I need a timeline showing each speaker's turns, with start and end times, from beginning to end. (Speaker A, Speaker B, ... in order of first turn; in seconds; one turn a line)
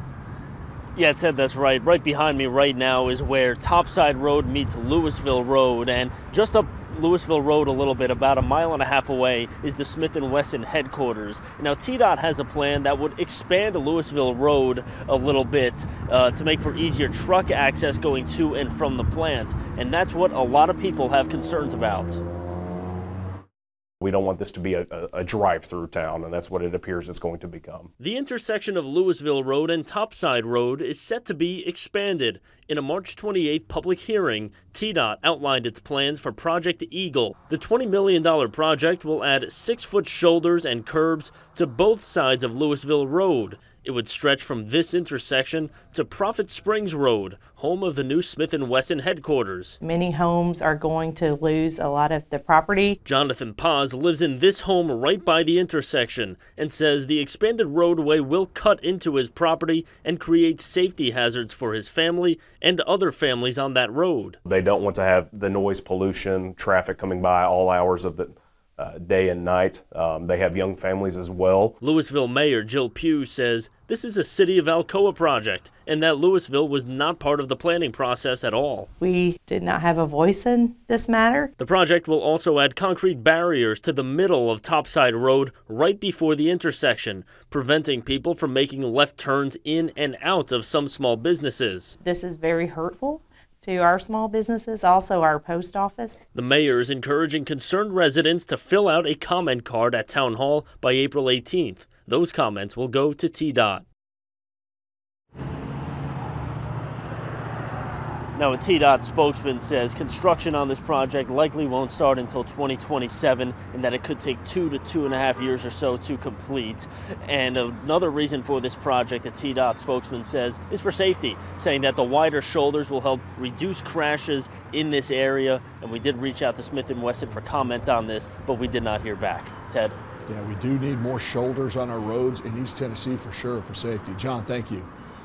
Speaker A: 0.9-22.2
Speaker B: 24.0-27.9
Speaker A: 28.0-49.8
Speaker C: 49.8-53.0
Speaker A: 53.0-64.4
Speaker B: 64.4-71.8
Speaker A: 71.8-78.9
Speaker C: 79.0-81.5
Speaker A: 81.6-91.9
Speaker C: 92.0-96.2
Speaker A: 96.3-103.8
Speaker A: 108.3-130.0
Speaker D: 130.3-134.9